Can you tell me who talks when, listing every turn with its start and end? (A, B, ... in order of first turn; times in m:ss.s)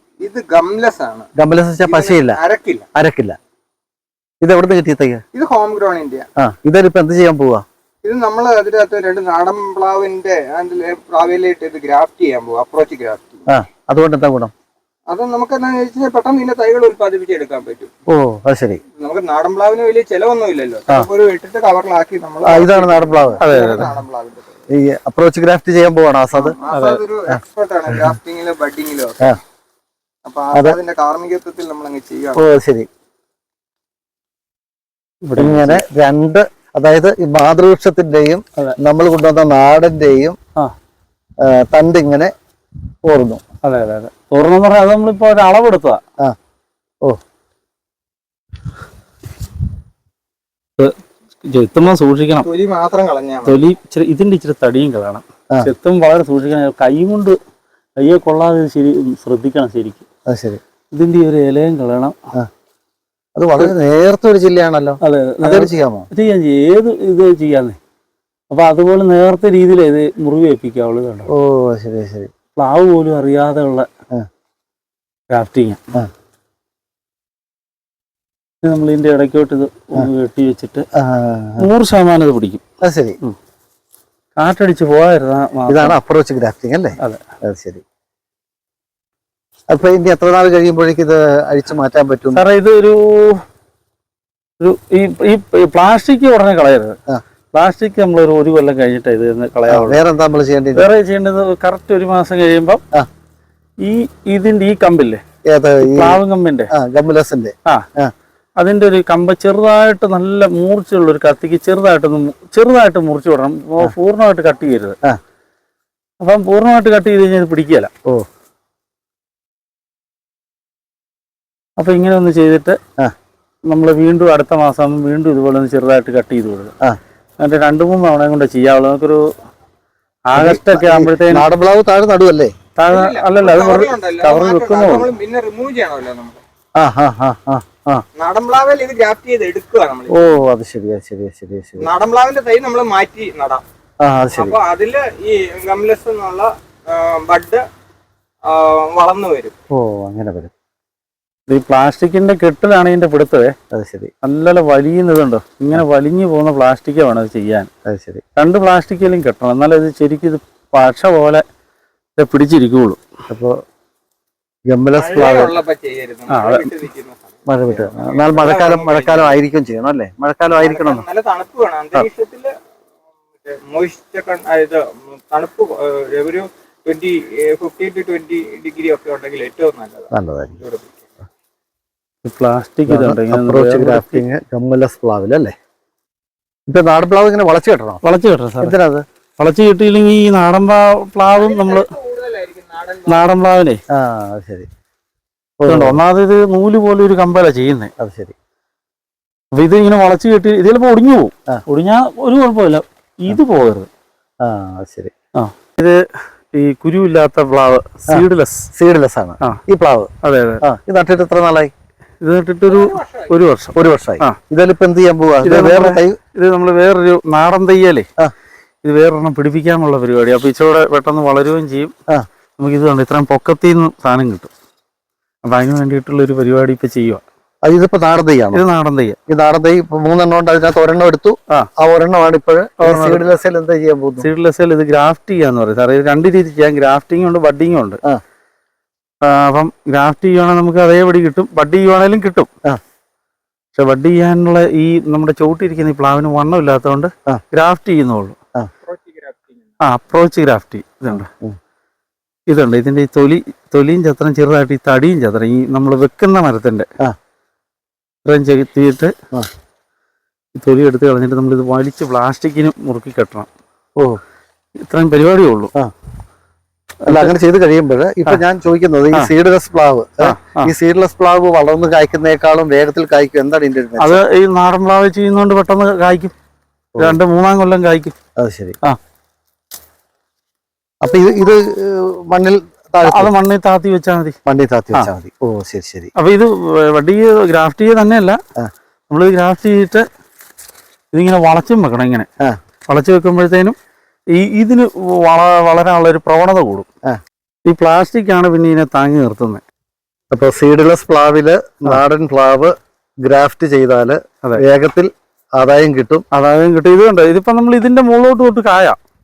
0:00.2-0:01.3 A
0:01.4-0:02.4 B
0:01.8-0:02.9 A
0:03.0-0:03.4 B
0:04.4-0:05.2 B
0:05.3-0:06.3 A
0:06.4-0:07.6 B
0:08.0-0:13.5 A
0:13.5-0:14.5 B
0:15.1-0:17.9 A
0:18.1-0:18.8 B
0:19.0-0:24.6 A
0:22.4-0:23.9 B
0:23.4-0:23.9 C
0:24.7-0:26.6 B
0:26.4-0:29.4 A
0:26.7-0:27.0 C
0:30.3-0:32.4 A
0:30.5-0:30.8 B
0:32.4-0:32.9 B
0:35.2-0:35.8 C
0:35.4-0:40.4 B
0:41.4-0:42.3 B
0:43.0-0:43.4 B
0:43.6-0:46.0 C
0:50.8-0:52.5 C
0:52.4-0:53.6 A
0:53.4-0:57.4 C
0:58.0-1:00.0 C
1:00.3-1:00.6 B
1:00.9-1:02.2 C
1:03.4-1:06.1 B
1:05.0-1:07.8 C
1:08.5-1:11.3 C
1:11.3-1:12.3 B
1:12.6-1:13.9 C
1:15.3-1:15.8 C
1:18.6-1:20.8 C
1:21.0-1:21.7 B
1:21.6-1:22.6 C
1:22.8-1:23.2 B
1:24.4-1:26.0 C
1:25.7-1:27.8 B
1:29.7-1:32.4 B
1:32.3-1:33.4 C
1:34.6-1:37.0 C
1:37.5-1:40.0 C
1:39.7-1:40.9 B
1:40.8-1:42.8 C
1:43.8-1:45.2 C
1:45.5-1:46.2 B
1:45.8-1:46.7 C
1:46.7-1:48.1 B
1:48.6-1:55.0 C
1:56.2-1:57.9 C
2:01.8-2:02.8 C
2:03.7-2:06.7 C
2:07.4-2:09.2 C
2:10.3-2:11.5 C
2:10.4-2:12.5 B
2:12.8-2:15.1 C
2:12.9-2:16.4 A
2:16.8-2:18.0 B
2:18.2-2:20.4 A
2:20.1-2:21.9 B
2:21.8-2:23.6 A
2:24.0-2:24.6 B
2:24.4-2:27.6 A
2:28.5-2:29.6 A
2:29.7-2:30.5 B
2:31.5-2:33.5 C
2:33.7-2:34.1 B
2:34.2-2:37.7 C
2:37.9-2:38.2 B
2:38.4-2:41.4 C
2:42.2-2:43.0 C
2:43.3-2:43.6 B
2:44.7-2:45.6 B
2:45.0-2:49.4 A
2:46.3-2:46.7 C
2:47.5-2:51.0 B
2:50.6-2:52.5 A
2:53.4-3:01.0 A
3:00.1-3:00.6 B
3:02.2-3:04.2 C
3:02.9-3:05.5 B
3:06.7-3:08.0 B
3:08.0-3:08.8 C
3:08.6-3:09.0 B
3:09.4-3:11.9 C
3:11.3-3:13.2 A
3:13.1-3:13.8 C
3:13.9-3:14.7 B
3:15.6-3:16.0 B
3:15.7-3:17.9 C
3:18.0-3:18.4 B
3:19.6-3:23.9 C
3:24.4-3:25.1 B
3:25.4-3:26.0 C
3:26.5-3:28.7 C
3:28.1-3:31.7 B
3:30.2-3:30.6 C
3:32.2-3:34.4 C
3:32.7-3:33.4 A
3:33.8-3:36.2 B
3:35.4-3:38.1 C
3:38.8-3:41.9 C
3:42.6-3:44.5 C
3:45.4-3:47.2 C
3:47.6-3:48.6 B
3:48.5-3:49.2 C
3:49.3-3:54.3 B
3:52.8-3:53.2 C
3:54.2-3:58.0 C
3:59.2-4:02.5 C
4:03.8-4:08.4 C
4:08.8-4:09.6 A
4:09.8-4:11.3 C
4:11.1-4:11.6 B
4:12.5-4:16.9 C
4:18.2-4:19.1 C
4:20.6-4:23.5 C
4:24.8-4:25.7 C
4:27.0-4:27.4 C
4:27.1-4:34.2 B
4:30.2-4:30.7 C
4:34.0-4:36.3 C
4:37.0-4:38.2 C
4:38.4-4:38.8 B
4:41.0-4:43.3 B
4:43.0-4:44.4 C
4:44.5-4:46.1 B
4:46.2-4:48.4 C
4:49.1-4:50.0 C
4:51.1-4:52.3 C
4:52.9-4:53.8 C
4:54.4-4:56.9 C
4:57.7-4:59.6 C
5:00.3-5:06.2 B
5:06.3-5:09.0 C